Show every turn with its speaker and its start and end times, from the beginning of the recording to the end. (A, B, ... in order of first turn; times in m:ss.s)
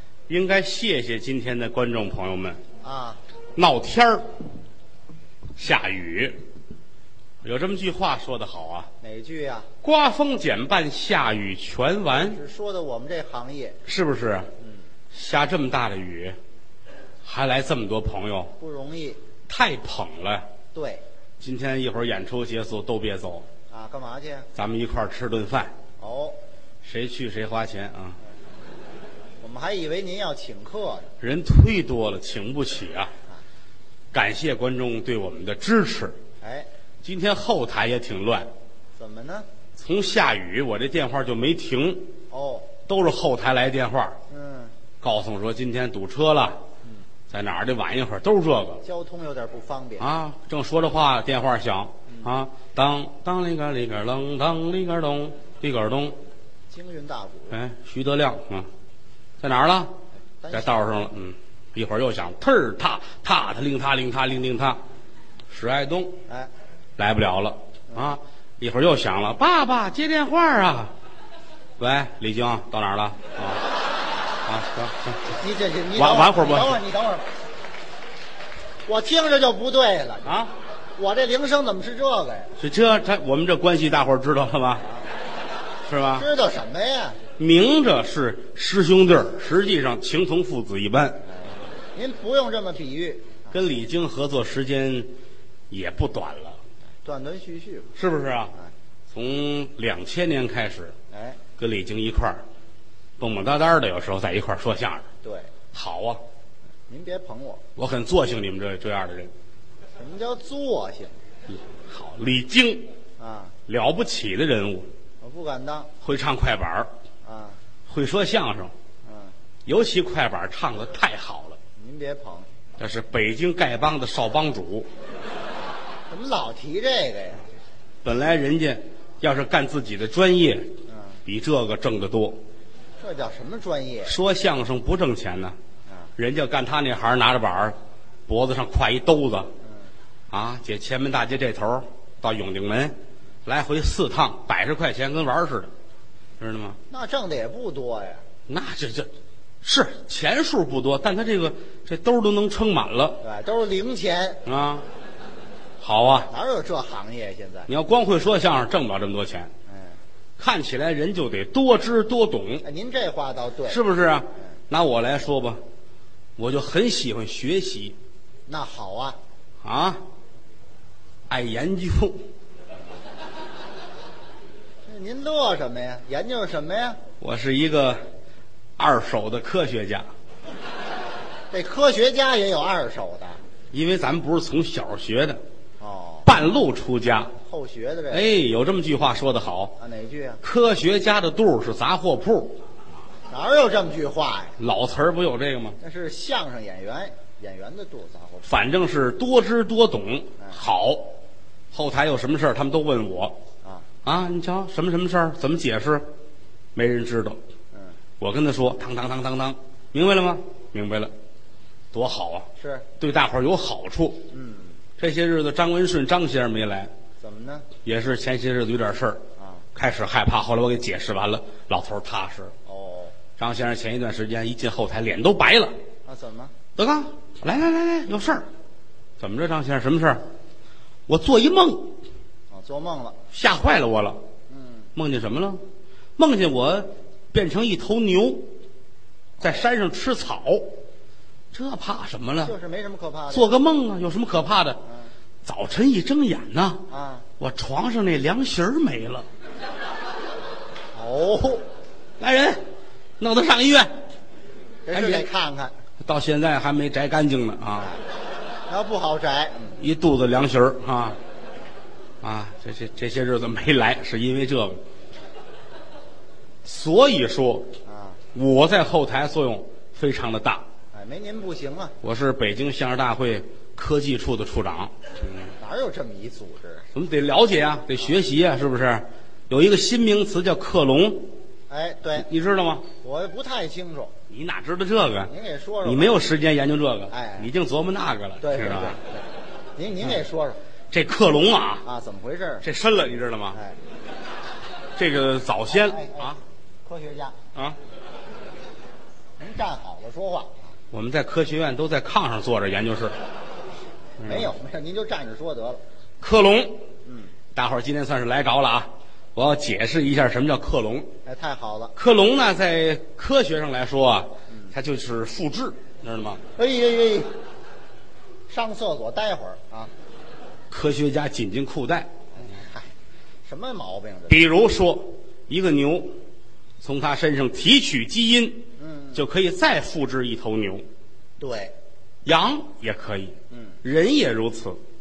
0:00.3-0:02.6 A
0:02.8-0:03.2 B
0:03.6-0:04.2 A
0:05.6-0:06.4 A
0:07.4-0:08.9 A
0:09.0-0:09.7 B
0:09.8-0:12.4 A
0:12.2-0:13.8 B
0:13.9-0:14.5 A
0:15.1-0:16.4 A
0:17.2-0:18.5 A
0:18.6-0:19.2 B
0:19.5-0:20.5 A
0:20.7-0:21.0 B
0:21.4-0:23.4 A
0:23.7-0:24.5 B
0:24.5-0:25.7 A
0:26.0-0:26.4 B
0:26.8-0:28.2 A
0:29.4-0:31.1 B
0:31.2-0:33.1 A
0:34.1-0:36.2 A
0:36.4-0:36.7 B
0:37.0-0:38.5 A
0:39.0-0:39.5 B
0:39.8-0:42.1 A
0:42.3-0:42.7 B
0:42.8-0:44.2 A
0:44.3-0:44.7 B
0:45.0-0:46.6 A
0:47.3-0:48.8 A
0:48.8-0:50.1 B
0:50.0-0:56.2 A
0:56.7-0:57.6 B
0:57.5-0:58.7 A
0:59.4-0:59.9 A
1:00.4-1:00.9 B
1:00.5-1:04.8 A
1:05.5-1:06.2 A
1:07.0-1:10.9 A
1:11.8-1:13.6 A
1:14.4-1:15.2 A
1:15.4-1:17.2 B
1:16.0-1:16.8 A
1:18.8-1:20.3 B
1:20.2-1:20.5 A
1:21.0-1:22.5 B
1:22.6-1:24.8 A
1:25.8-1:26.3 A
1:26.1-1:27.2 B
1:27.4-1:31.2 A
1:31.9-1:33.5 B
1:33.5-1:35.1 A
1:35.7-1:36.6 A
1:37.0-1:37.9 B
1:38.0-1:38.5 A
1:39.1-1:40.9 A
1:41.1-1:41.4 B
1:41.6-1:42.4 A
1:43.2-1:45.1 A
1:45.2-1:45.5 B
1:45.7-1:46.2 A
1:46.9-1:47.6 B
1:47.8-1:49.3 A
1:50.0-1:51.1 B
1:51.5-1:52.8 A
1:53.2-1:53.5 B
1:53.7-1:54.9 A
1:55.2-1:55.9 B
1:56.0-1:56.9 A
1:57.2-1:57.6 B
1:57.9-1:58.7 A
1:59.0-1:59.3 B
1:59.7-2:01.6 A
2:01.8-2:02.5 B
2:02.8-2:04.9 A
2:06.1-2:07.4 B
2:08.0-2:10.7 A
2:10.9-2:11.2 B
2:11.2-2:12.4 A
2:13.0-2:14.2 B
2:14.0-2:15.6 A
2:16.2-2:17.8 A
2:18.3-2:19.5 A
2:19.6-2:19.9 B
2:20.3-2:25.7 A
2:26.4-2:26.8 A
2:26.9-2:28.2 B
2:28.5-2:29.1 A
2:29.6-2:33.2 A
2:33.2-2:34.4 B
2:34.4-2:34.8 A
2:35.8-2:36.3 A
2:36.3-2:37.7 B
2:37.7-2:39.5 A
2:39.7-2:40.0 B
2:40.4-2:42.6 A
2:42.6-2:43.8 B
2:43.7-2:45.6 A
2:46.4-2:48.0 A
2:48.5-2:49.2 B
2:49.6-2:50.0 A
2:51.3-2:52.2 A
2:54.8-2:57.0 B
2:57.2-2:58.0 A
2:58.8-3:00.1 A
3:01.5-3:03.4 B
3:03.7-3:05.4 A
3:05.8-3:06.3 B
3:06.2-3:07.3 A
3:07.4-3:08.3 B
3:08.1-3:09.8 A
3:09.8-3:10.4 B
3:10.4-3:12.6 A
3:13.3-3:14.5 B
3:14.6-3:15.8 A
3:15.8-3:18.5 B
3:18.5-3:21.1 A
3:21.7-3:23.4 A
3:24.0-3:26.1 A
3:26.8-3:27.4 A
3:28.2-3:31.1 A
3:31.9-3:32.5 A
3:32.6-3:32.9 B
3:33.0-3:34.2 A
3:34.3-3:34.8 B
3:35.0-3:36.9 A
3:37.2-3:37.7 B
3:37.8-3:39.2 A
3:39.4-3:39.6 B
3:39.8-3:42.5 A
3:42.7-3:43.1 B
3:43.4-3:45.8 A
3:46.1-3:46.5 B
3:46.8-3:48.5 A
3:49.2-3:50.2 A
3:51.1-3:51.9 A
3:52.5-3:53.2 B
3:53.3-3:54.2 A
3:54.5-3:54.9 B
3:54.9-3:55.6 A
3:56.2-3:58.5 A
3:59.4-4:00.7 A
4:01.5-4:02.5 A
4:02.4-4:03.5 B
4:03.3-4:04.8 A
4:05.4-4:06.8 A
4:06.9-4:07.2 B
4:07.4-4:09.3 A
4:10.9-4:11.6 B
4:12.2-4:12.6 A
4:13.2-4:13.9 A
4:14.9-4:15.7 B
4:14.9-4:15.3 A
4:16.0-4:17.9 A
4:18.7-4:19.8 B
4:19.8-4:21.2 A
4:22.2-4:24.8 A
4:26.6-4:27.7 A
4:27.8-4:28.2 B
4:28.3-4:30.6 A
4:30.9-4:32.0 B
4:32.0-4:35.4 A
4:35.6-4:36.9 B
4:36.9-4:41.3 A
4:41.7-4:42.3 B
4:42.2-4:42.9 A
4:43.0-4:44.1 B
4:44.3-4:45.3 A
4:45.2-4:46.2 B
4:45.8-4:49.0 A
4:47.1-4:47.5 B
4:48.4-4:49.2 B
4:49.8-4:50.6 B
4:50.9-4:51.9 A
4:51.8-4:52.6 B
4:52.6-4:53.6 A
4:53.5-4:53.8 B
4:55.0-4:56.4 A
4:55.7-4:57.4 B
4:59.4-5:00.7 B
5:00.9-5:03.1 A
5:04.2-5:04.5 A
5:04.2-5:05.8 B
5:06.2-5:06.8 A
5:07.1-5:07.3 B
5:07.6-5:11.1 A
5:11.2-5:11.9 B
5:12.0-5:16.4 A
5:16.6-5:17.3 B
5:18.5-5:19.9 B
5:20.7-5:22.1 A
5:22.4-5:22.9 B
5:23.4-5:24.4 B
5:24.3-5:26.2 A
5:26.8-5:30.9 A
5:28.8-5:29.2 B
5:31.4-5:31.8 B
5:32.2-5:34.8 A
5:33.5-5:33.8 B